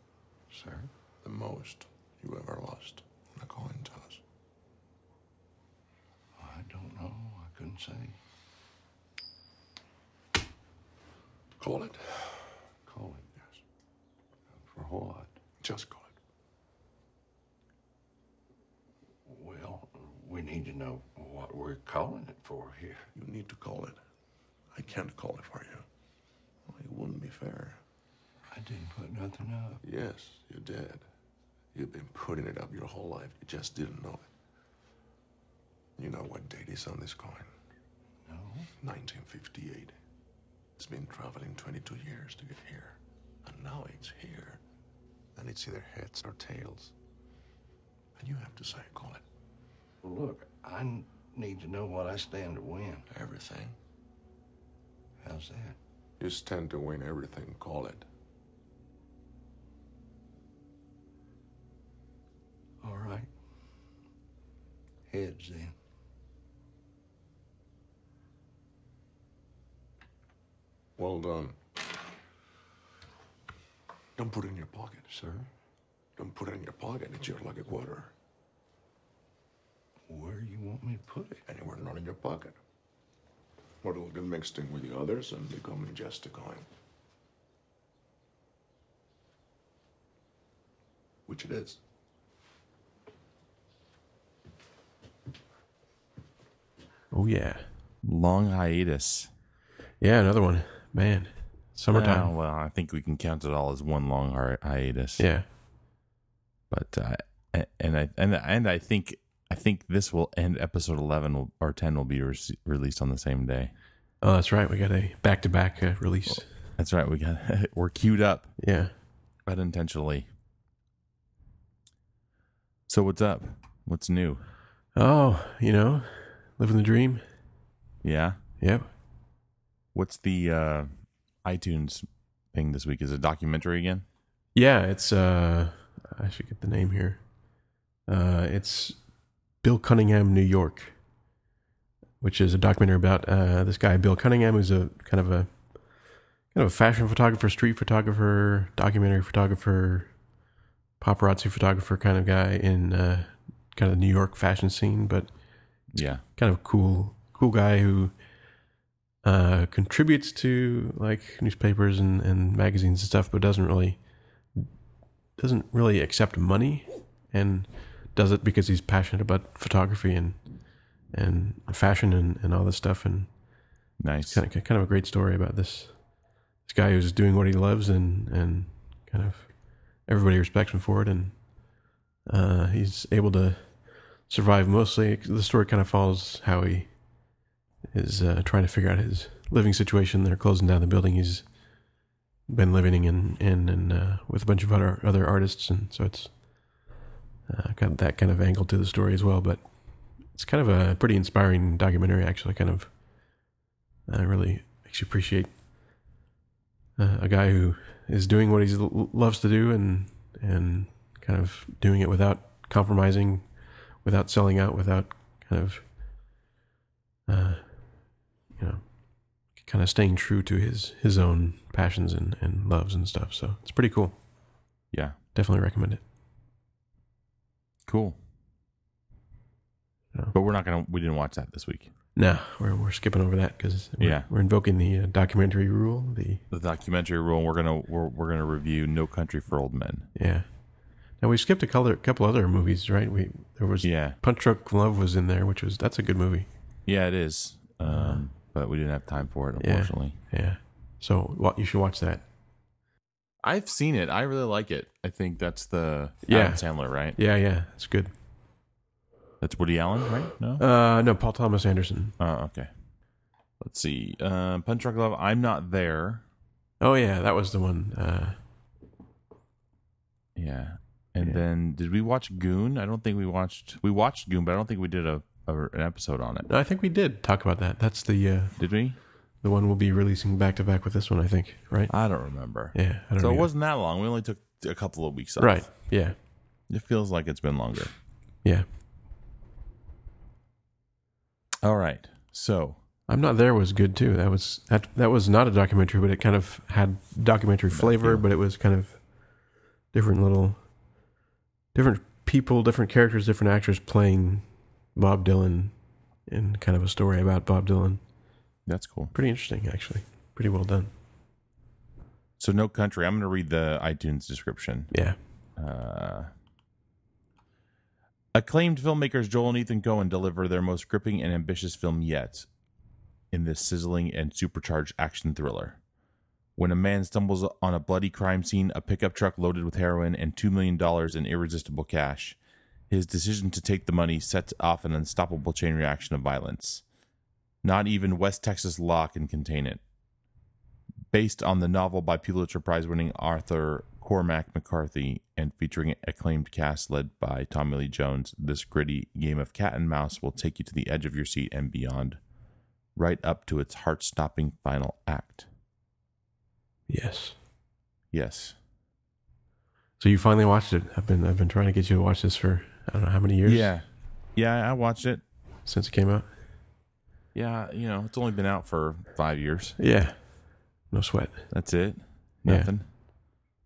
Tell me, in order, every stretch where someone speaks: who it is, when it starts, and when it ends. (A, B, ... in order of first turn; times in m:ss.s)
0:00.5-0:00.9 A
0:01.2-0:04.2 B
0:06.4-0:08.2 A
0:11.6-0:12.3 B
0:12.9-0:13.3 A
0:14.5-0:15.3 A
0:15.6-0:16.1 B
0:19.3-0:23.1 A
0:23.2-0:24.0 B
0:24.7-0:25.8 B
0:26.7-0:27.8 B
0:28.5-0:29.8 A
0:29.8-0:31.1 B
0:31.7-0:34.3 B
0:36.0-0:37.5 B
0:38.2-0:38.7 A
0:38.8-0:40.0 B
0:40.8-0:44.6 B
0:45.4-0:46.9 B
0:48.2-0:49.2 B
0:50.0-0:53.1 A
0:53.1-0:53.8 B
0:55.2-0:55.8 A
0:56.2-0:58.1 B
1:02.8-1:03.3 A
1:05.1-1:05.8 A
1:11.0-1:11.6 B
1:14.2-1:15.1 B
1:15.1-1:15.5 A
1:16.2-1:18.1 B
1:20.1-1:21.4 A
1:21.5-1:22.6 B
1:23.8-1:26.7 B
1:31.3-1:31.8 B
1:37.1-1:37.6 C
1:38.0-1:39.3 D
1:40.0-1:42.3 C
1:41.9-1:45.3 D
1:45.2-1:45.4 C
1:46.7-1:53.7 D
1:54.2-1:56.5 C
1:56.8-1:58.5 D
1:58.6-1:58.9 C
1:59.5-2:00.2 D
2:02.9-2:04.4 D
2:05.0-2:07.2 C
2:08.0-2:08.4 D
2:08.6-2:08.9 C
2:09.9-2:10.9 D
2:11.4-2:14.0 D
2:14.6-2:17.2 C
2:18.1-2:19.0 C
2:19.6-2:21.0 C
2:22.2-2:25.6 C
2:26.5-2:30.1 C
2:31.0-2:35.3 C
2:35.9-2:36.2 D
2:36.4-2:38.2 C
2:39.2-2:44.0 C
2:45.4-2:50.4 C
2:51.1-2:53.3 C
2:54.0-2:54.4 D
2:54.3-2:55.9 C
2:56.6-3:01.4 C
3:02.3-3:06.9 C
3:07.9-3:11.5 C
3:12.5-3:16.3 C
3:17.5-3:19.6 C
3:20.3-3:22.9 C
3:24.1-3:25.5 C
3:27.0-3:33.5 C
3:34.0-3:35.9 C
3:37.3-3:37.6 C
3:38.6-3:38.8 C
3:39.6-3:44.2 C
3:44.9-3:45.2 D
3:45.4-3:46.0 C
3:47.9-3:48.2 D
3:50.3-3:51.9 D
3:52.2-3:56.4 C
3:54.0-3:54.3 D
3:56.5-4:00.1 D
4:00.2-4:00.4 C
4:01.2-4:06.5 C
4:03.8-4:04.2 D
4:06.9-4:10.2 D
4:07.8-4:08.2 C
4:09.6-4:12.2 C
4:13.4-4:17.2 D
4:16.3-4:16.6 C
4:17.2-4:18.1 C
4:19.4-4:20.6 D
4:20.6-4:22.2 C
4:22.2-4:22.7 D
4:23.6-4:26.2 D
4:26.8-4:28.4 C
4:30.4-4:36.5 D
4:36.5-4:38.6 C
4:38.6-4:39.0 D
4:39.4-4:41.9 C
4:41.9-4:45.6 D
4:42.7-4:43.5 C
4:45.4-4:46.2 C
4:46.7-4:47.9 D
4:51.6-4:52.8 D
4:53.1-4:59.0 C
4:57.7-4:58.2 D
4:59.9-5:00.6 C
5:01.7-5:05.8 C
5:06.3-5:08.0 C
5:08.7-5:09.1 D
5:09.1-5:10.9 C
5:12.4-5:14.9 D
5:14.9-5:15.2 C
5:15.6-5:16.3 D
5:18.3-5:22.5 D
5:23.3-5:25.8 D
5:26.6-5:32.4 D
5:32.9-5:36.8 D
5:37.6-5:39.8 D
5:41.1-5:52.2 D
5:53.0-5:55.5 D
5:56.9-5:57.4 C
5:58.1-5:58.6 D
6:00.0-6:03.7 C
6:03.4-6:03.8 D
6:04.4-6:05.2 D
6:05.7-6:06.3 C
6:07.3-6:09.8 D
6:09.8-6:10.2 C
6:10.9-6:11.5 C
6:11.5-6:12.8 D